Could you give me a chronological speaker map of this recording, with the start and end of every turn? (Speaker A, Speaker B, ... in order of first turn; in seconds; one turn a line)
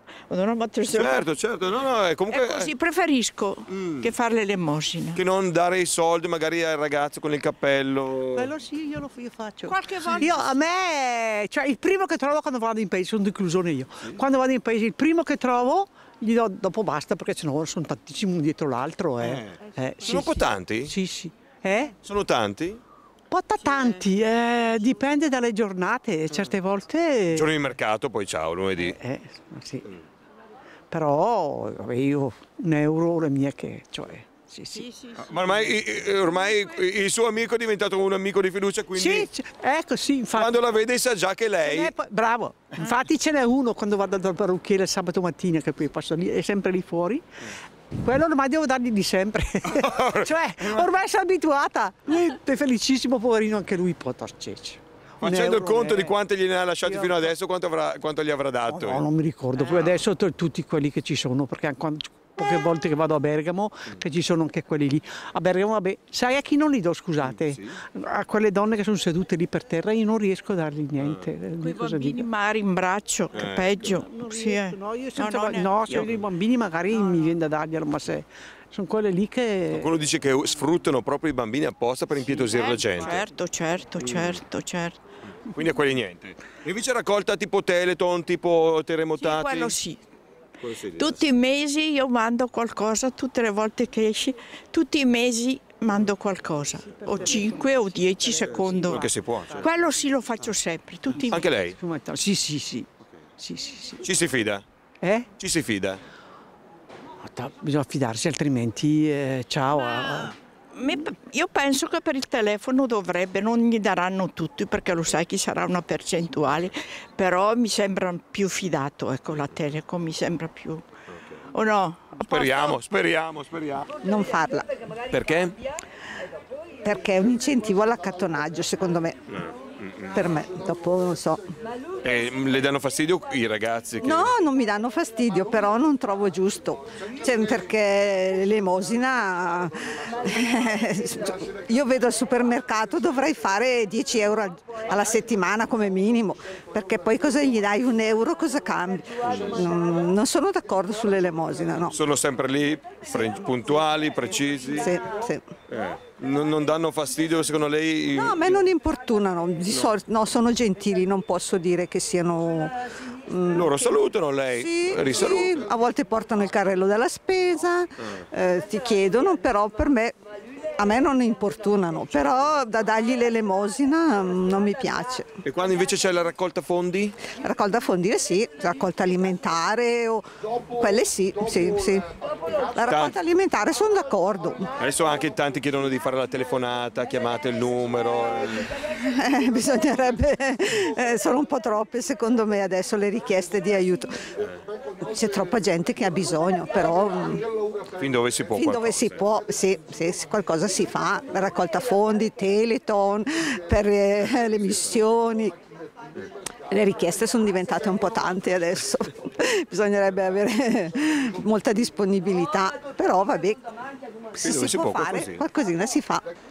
Speaker A: 0.3-1.2
Speaker B: 0.9-2.7
Speaker A: 2.3-5.2
Speaker B: 3.7-4.1
Speaker B: 5.1-8.5
Speaker C: 8.3-21.9
Speaker A: 9.6-10.4
Speaker B: 19.2-20.9
Speaker B: 22.0-22.8
Speaker C: 23.3-27.5
Speaker B: 27.3-29.0
Speaker C: 28.8-29.9
Speaker C: 30.9-35.0
Speaker B: 35.2-39.3
Speaker C: 38.9-40.6
Speaker B: 40.3-42.0
Speaker C: 41.6-47.2
Speaker C: 47.9-56.1
Speaker B: 49.7-50.9
Speaker B: 55.2-59.0
Speaker C: 56.8-57.3
Speaker C: 58.6-72.3
Speaker B: 67.2-67.8
Speaker B: 71.0-71.3
Speaker A: 71.6-76.2
Speaker B: 73.3-74.0
Speaker C: 73.8-79.9
Speaker A: 77.0-77.3
Speaker B: 79.7-83.2
Speaker C: 82.2-83.1
Speaker A: 82.3-85.0
Speaker B: 84.0-84.4
Speaker B: 85.5-89.7
Speaker A: 89.2-90.0
Speaker B: 90.6-91.2
Speaker A: 91.0-101.4
Speaker C: 96.8-99.7
Speaker B: 98.4-99.7
Speaker C: 101.1-104.0
Speaker B: 101.2-101.8
Speaker B: 104.0-104.6
Speaker C: 105.0-105.3
Speaker B: 105.4-106.0
Speaker C: 107.2-110.3
Speaker A: 109.7-120.8
Speaker B: 121.1-121.4
Speaker A: 121.5-122.8
Speaker B: 122.3-123.9
Speaker D: 124.0-124.7
Speaker B: 125.1-125.5
Speaker D: 126.8-129.2
Speaker B: 129.3-130.2
Speaker D: 130.1-131.4
Speaker B: 132.0-134.3
Speaker D: 134.0-151.9
Speaker B: 151.9-154.9
Speaker D: 154.7-155.4
Speaker B: 155.7-158.6
Speaker D: 158.1-163.8
Speaker B: 159.7-159.9
Speaker B: 163.5-165.6
Speaker D: 164.5-170.1
Speaker D: 170.8-175.3
Speaker B: 175.4-177.2
Speaker D: 177.3-182.1
Speaker D: 182.7-184.7
Speaker B: 182.8-183.1
Speaker B: 184.8-188.7
Speaker D: 189.0-194.2
Speaker D: 195.0-197.5
Speaker B: 198.0-199.2
Speaker D: 198.5-205.5
Speaker D: 206.7-213.7
Speaker D: 214.4-216.2
Speaker B: 214.4-215.4